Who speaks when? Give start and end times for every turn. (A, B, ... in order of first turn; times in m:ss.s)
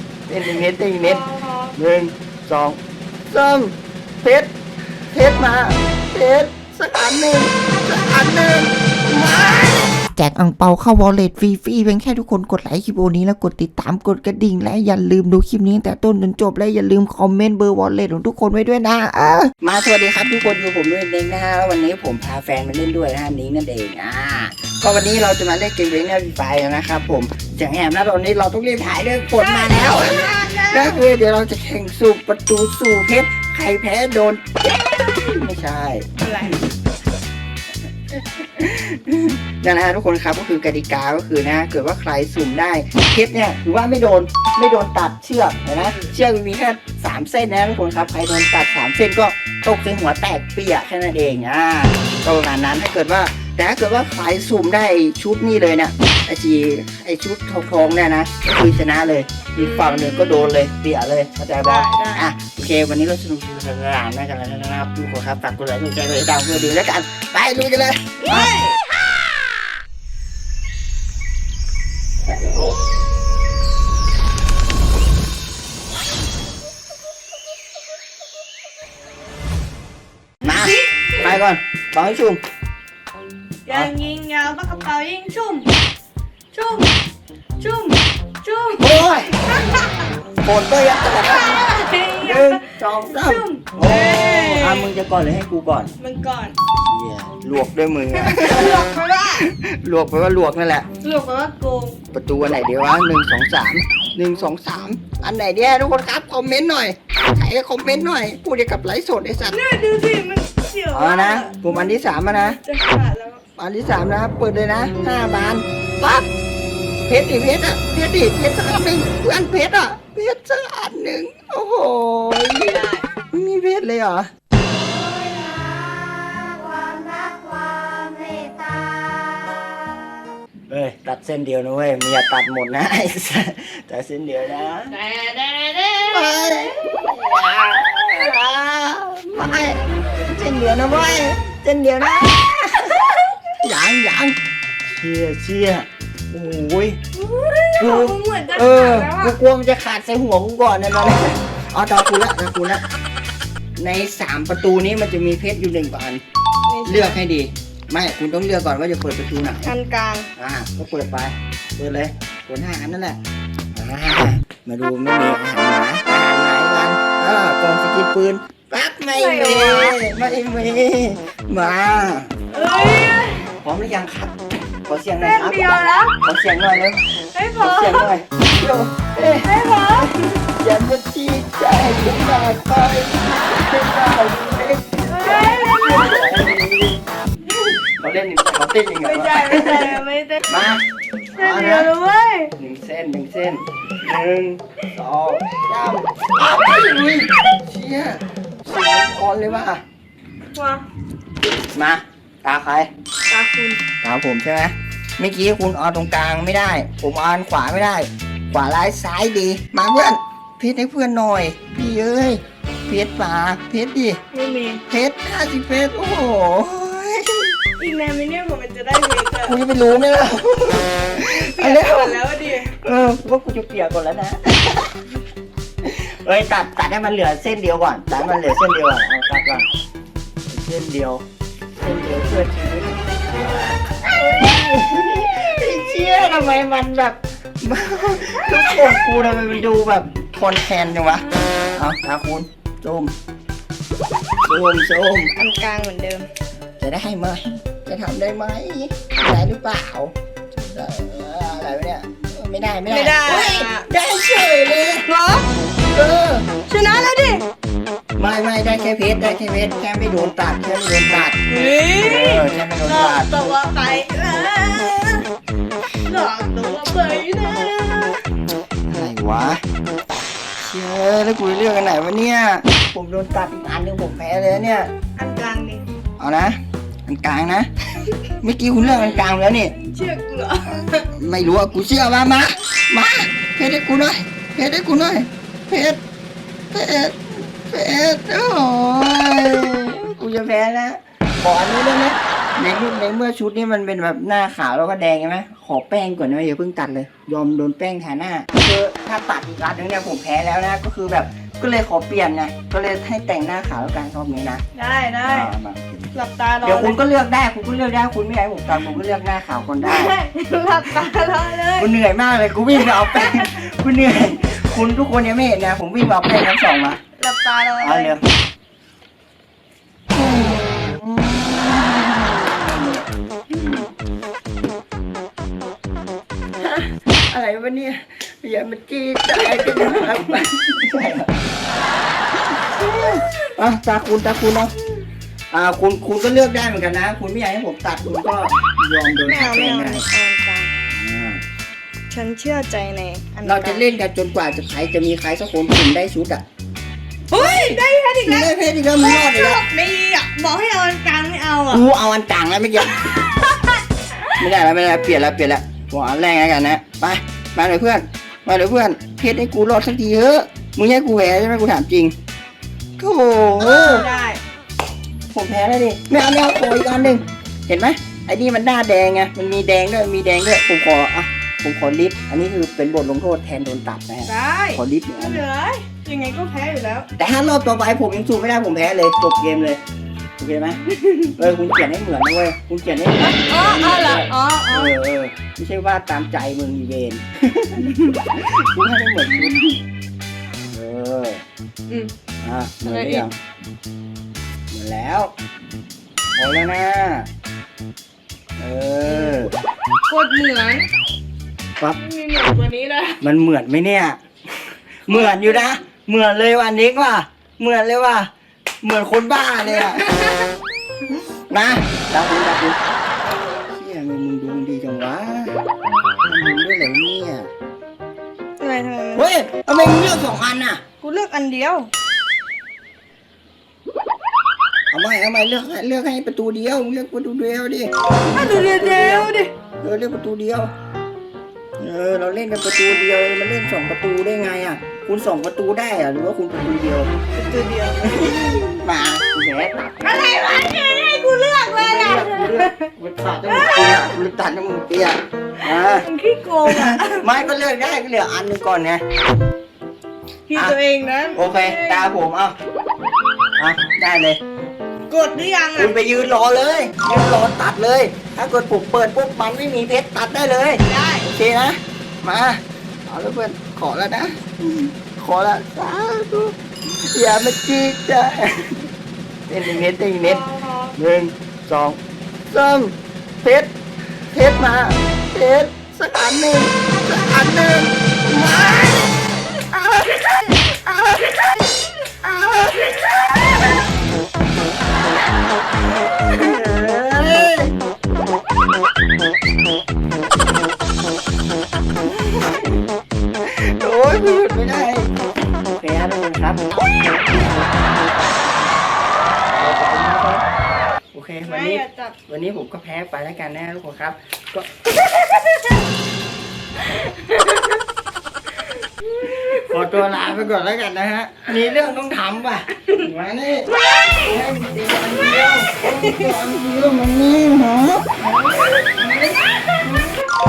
0:00.3-0:01.2 A
0:01.0-0:01.8 B
0:01.8-0:03.7 A
0:04.2-0:04.5 A
0:05.1-0:11.7 A
0:10.2-0:19.4 C
0:18.7-0:36.6 A
0:29.4-0:31.0 B
0:36.2-0:36.6 B
0:38.1-1:08.6 A
0:45.8-0:46.1 B
0:59.6-1:00.5 B
1:01.6-1:02.3 B
1:08.2-1:08.8 B
1:20.4-1:22.4 A
1:20.5-1:21.3 B
1:23.7-1:25.7 B
1:26.5-1:27.0 B
1:27.6-1:30.2 B
1:28.8-1:29.4 A
1:30.4-1:35.9 A
1:31.1-1:34.9 B
1:36.0-1:36.6 B
1:36.8-1:40.9 A
1:38.1-1:39.5 B
1:41.0-1:42.0 B
1:42.1-1:49.6 A
1:49.5-1:53.4 B
1:50.9-1:52.6 A
1:53.6-1:56.3 A
1:57.1-2:04.3 A
2:02.7-2:03.0 B
2:04.6-2:10.0 B
2:10.7-2:15.0 A
2:15.0-2:16.2 B
2:16.1-2:24.4 A
2:24.9-2:27.0 A
2:27.1-2:29.4 B
2:27.8-2:32.8 A
2:33.8-2:36.2 A
2:36.7-2:37.2 B
2:36.9-2:39.7 A
2:39.6-2:40.3 B
2:40.4-2:43.2 A
2:43.7-2:52.3 A
2:49.1-2:50.0 B
2:52.5-2:53.5 B
2:53.6-2:57.0 A
2:55.2-2:56.2 B
2:57.3-2:58.1 B
2:57.6-3:10.8 A
2:59.4-3:00.4 B
3:05.1-3:06.3 B
3:09.0-3:10.5 B
3:11.3-3:12.5 B
3:11.4-3:11.9 A
3:12.6-3:19.8 A
3:20.6-3:20.8 B
3:21.7-3:22.9 A
3:23.3-3:23.8 B
3:24.0-3:34.2 A
3:34.3-3:34.8 B
3:34.9-3:37.5 A
3:37.8-3:39.6 B
3:39.4-3:44.9 A
3:41.1-3:42.7 B
3:45.8-3:49.7 A
3:50.5-3:51.2 A
3:51.8-4:01.2 A
4:01.8-4:03.1 A
4:04.4-4:05.3 A
4:05.4-4:06.3 B
4:06.8-4:15.1 A
4:12.9-4:13.9 B
4:15.1-4:15.5 B
4:15.9-4:16.5 A
4:16.7-4:17.4 B
4:18.2-4:23.3 A
4:21.5-4:25.2 B
4:26.0-4:28.2 B
4:28.9-4:29.6 A
4:30.6-4:34.9 A
4:35.2-4:35.8 B
4:36.2-4:37.7 A
4:38.4-4:39.7 A
4:39.7-4:41.1 B
4:41.2-4:46.0 A
4:46.7-5:04.6 A
5:04.7-5:05.5 B
5:05.2-5:06.1 A
5:06.1-5:07.0 B
5:06.6-5:10.2 A
5:09.8-5:11.9 B
5:11.8-5:17.0 A
5:12.8-5:13.5 B
5:17.2-5:18.2 B
5:17.8-5:18.2 A
5:20.1-5:23.9 A
5:26.6-5:31.3 A
5:29.6-5:30.1 B
5:32.4-5:34.7 A
5:35.5-5:40.0 A
5:39.2-5:40.7 B
5:40.9-5:41.4 A
5:42.1-5:43.8 B
5:43.4-5:46.4 A
5:47.3-5:49.6 A
5:47.3-5:51.8 B
5:51.7-5:53.3 A
5:52.8-5:53.8 B
5:54.4-6:02.1 A
6:03.0-6:04.1 A
6:03.6-6:04.4 B
6:05.3-6:15.4 A
6:14.3-6:17.1 B
6:17.2-6:19.8 A
6:20.4-6:20.8 A
6:21.0-6:21.3 B
6:21.4-6:29.8 A
6:23.2-6:24.9 B
6:27.8-6:28.2 B
6:30.7-6:31.4 A
6:32.4-6:33.3 A
6:32.8-6:33.3 B
6:34.7-6:35.3 A
6:36.4-6:37.3 A
6:38.6-6:39.5 A
6:39.1-6:39.5 B
6:40.1-6:40.9 B
6:42.0-6:43.2 B
6:43.2-6:48.3 A
6:45.1-6:45.7 B
6:48.8-6:50.1 A
6:49.7-6:50.5 B
6:51.5-6:52.8 A
6:53.7-6:55.6 A
6:56.2-6:57.5 A
6:58.6-6:59.3 B
6:59.2-7:00.8 A
7:01.0-7:01.9 B
7:04.9-7:09.3 A
7:08.3-7:09.5 B
7:09.8-7:10.7 A
7:11.8-7:17.1 A
7:17.3-7:18.3 B
7:18.0-7:20.3 A
7:20.0-7:22.9 B
7:21.7-7:26.1 A
7:23.5-7:24.1 B
7:25.7-7:27.3 B
7:26.6-7:29.0 A
7:30.5-7:32.1 B
7:31.3-7:32.6 A
7:33.6-7:34.4 A
7:35.1-7:36.0 B
7:35.8-7:48.8 A
7:40.8-7:41.3 B
7:49.5-7:50.4 A
7:50.2-7:51.0 B
7:51.0-7:52.0 A
7:52.5-7:53.7 A
7:54.3-8:03.8 A
8:06.1-8:07.7 A
8:12.0-8:12.8 A
8:13.4-8:17.7 A
8:19.5-8:20.4 A
8:21.1-8:24.7 A
8:21.4-8:22.2 B
8:27.3-8:27.5 B
8:29.2-8:29.7 B
8:29.4-8:40.1 A
8:36.0-8:36.4 B